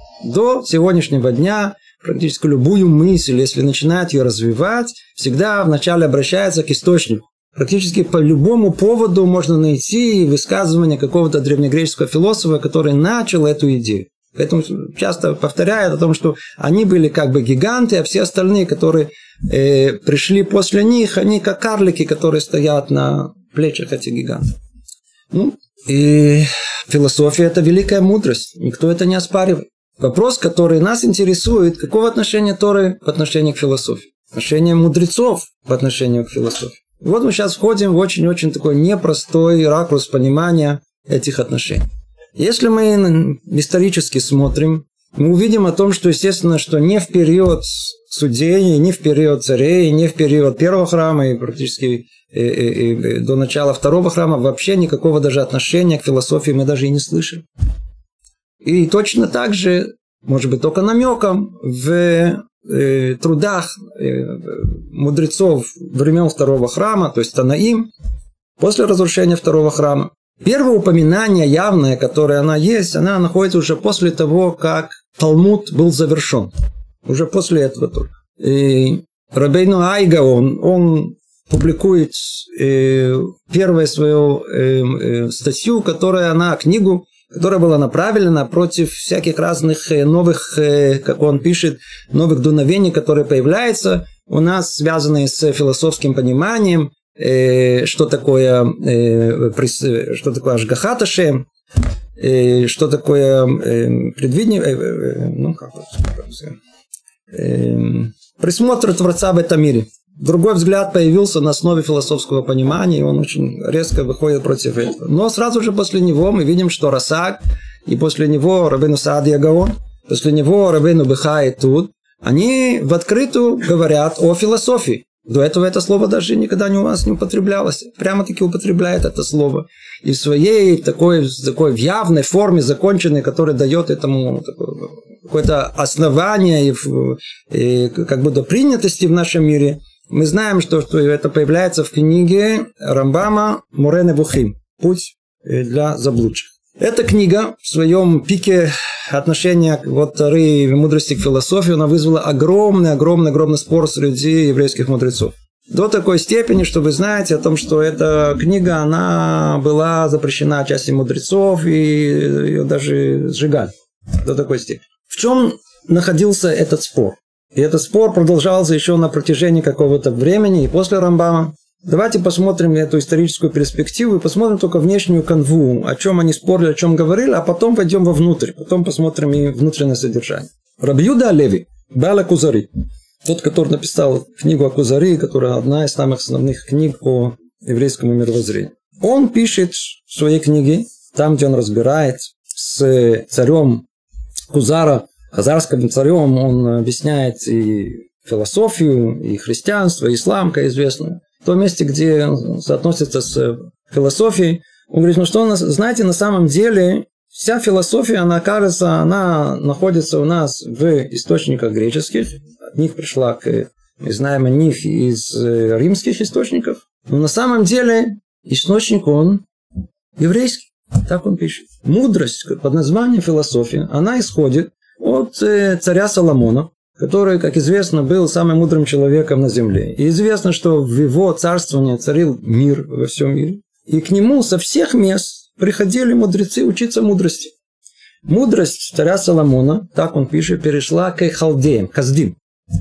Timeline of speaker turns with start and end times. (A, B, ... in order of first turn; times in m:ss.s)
0:00.2-0:24.4 A
0:25.3-0:57.4 A
0:58.6-1:07.9 A
1:08.6-1:16.5 A
1:17.0-1:41.5 A
1:42.2-1:46.6 A
1:47.3-3:02.7 A
3:03.2-3:13.8 A
3:14.5-3:39.4 A
3:40.2-3:57.5 A
3:58.2-4:02.4 A